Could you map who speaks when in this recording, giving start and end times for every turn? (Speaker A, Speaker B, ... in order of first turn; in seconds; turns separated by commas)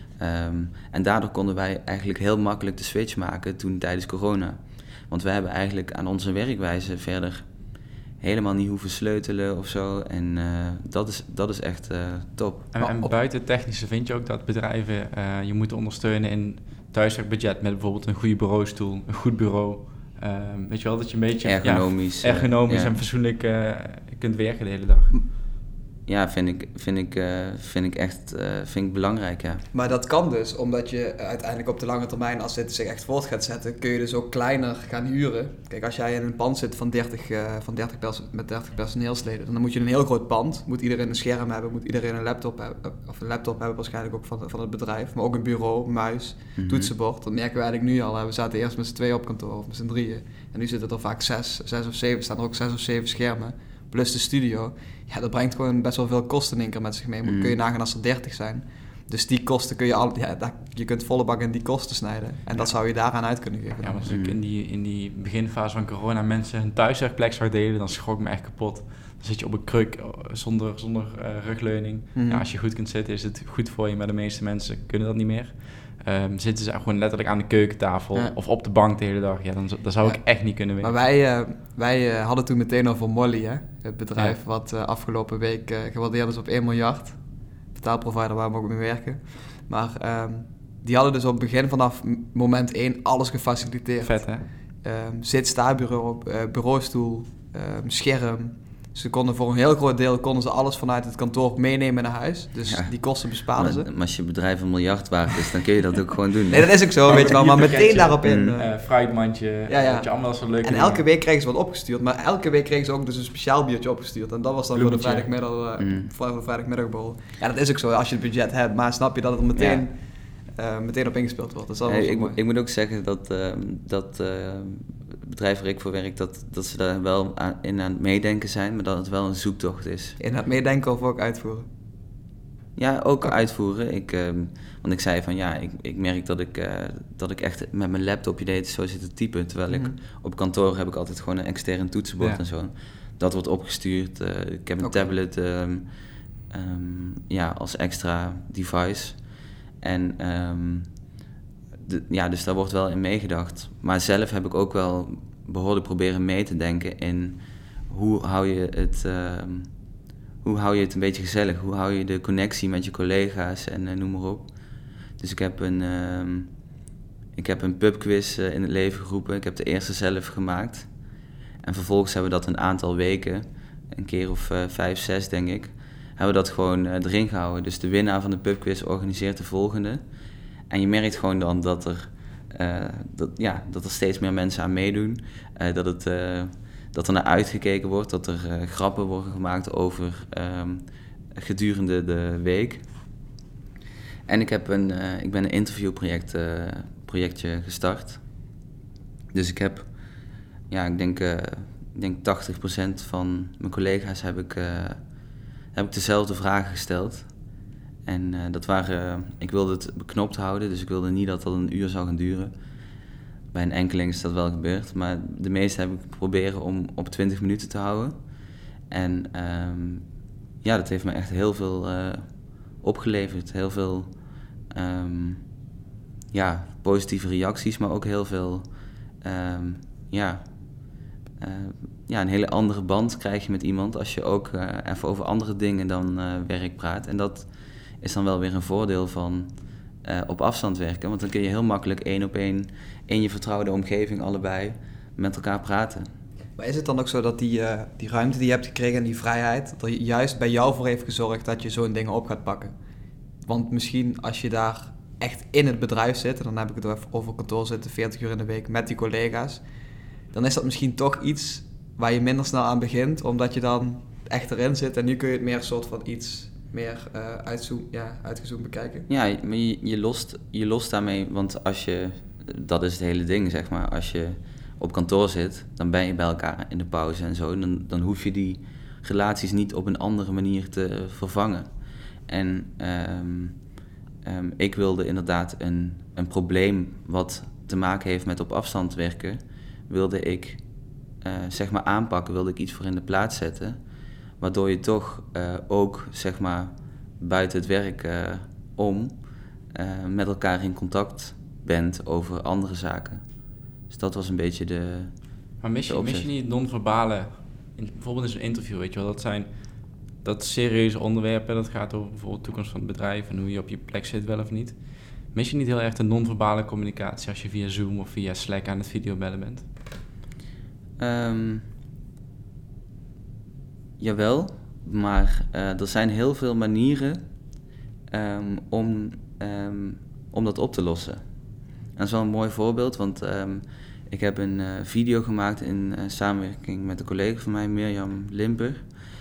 Speaker A: 0.2-7.5, Speaker A: 8.2-12.7, Speaker B: 12.7-25.2, Speaker C: 12.8-13.1, Speaker A: 21.4-22.9, Speaker A: 26.1-29.6, Speaker C: 29.7-64.1, Speaker A: 46.6-46.9, Speaker A: 57.2-57.5, Speaker B: 63.8-80.9, Speaker A: 64.1-64.4, Speaker C: 72.2-72.4, Speaker C: 80.0-87.2, Speaker C: 87.7-103.9, Speaker B: 94.0-94.5, Speaker A: 102.7-107.3, Speaker C: 106.5-108.7, Speaker B: 107.1-111.0, Speaker A: 108.2-108.5, Speaker C: 109.7-110.1, Speaker C: 110.6-122.4, Speaker A: 114.8-115.3, Speaker A: 115.8-116.1, Speaker A: 119.6-119.8, Speaker A: 121.9-130.2, Speaker C: 130.2-131.7, Speaker A: 132.8-145.9, Speaker C: 139.7-140.0, Speaker C: 144.8-145.1, Speaker A: 146.5-149.2, Speaker A: 149.8-150.9, Speaker A: 151.8-159.7, Speaker A: 160.4-164.5, Speaker A: 165.2-166.5, Speaker A: 167.4-170.9, Speaker A: 171.6-180.0, Speaker A: 180.7-190.8, Speaker A: 191.3-192.8, Speaker A: 194.3-198.2, Speaker A: 199.3-199.9, Speaker A: 200.7-205.0, Speaker A: 205.7-207.3, Speaker A: 208.1-212.5, Speaker A: 213.5-218.2, Speaker A: 218.9-220.1, Speaker A: 220.6-222.3, Speaker A: 222.8-224.1, Speaker A: 224.7-225.4, Speaker A: 226.3-228.7, Speaker A: 229.2-230.4, Speaker A: 231.4-237.5, Speaker A: 238.0-239.5, Speaker A: 240.0-246.1, Speaker C: 246.6-252.7, Speaker C: 253.4-259.6, Speaker C: 260.3-269.1, Speaker A: 269.1-281.7, Speaker A: 282.3-283.6, Speaker A: 284.2-290.6, Speaker A: 291.2-293.8, Speaker A: 294.4-299.2, Speaker A: 299.8-303.2, Speaker A: 303.9-305.1, Speaker B: 305.6-309.5, Speaker A: 305.9-306.3, Speaker B: 310.2-314.8, Speaker B: 315.3-319.7, Speaker A: 321.0-321.7, Speaker A: 324.0-327.2, Speaker A: 328.1-331.2, Speaker A: 332.0-338.9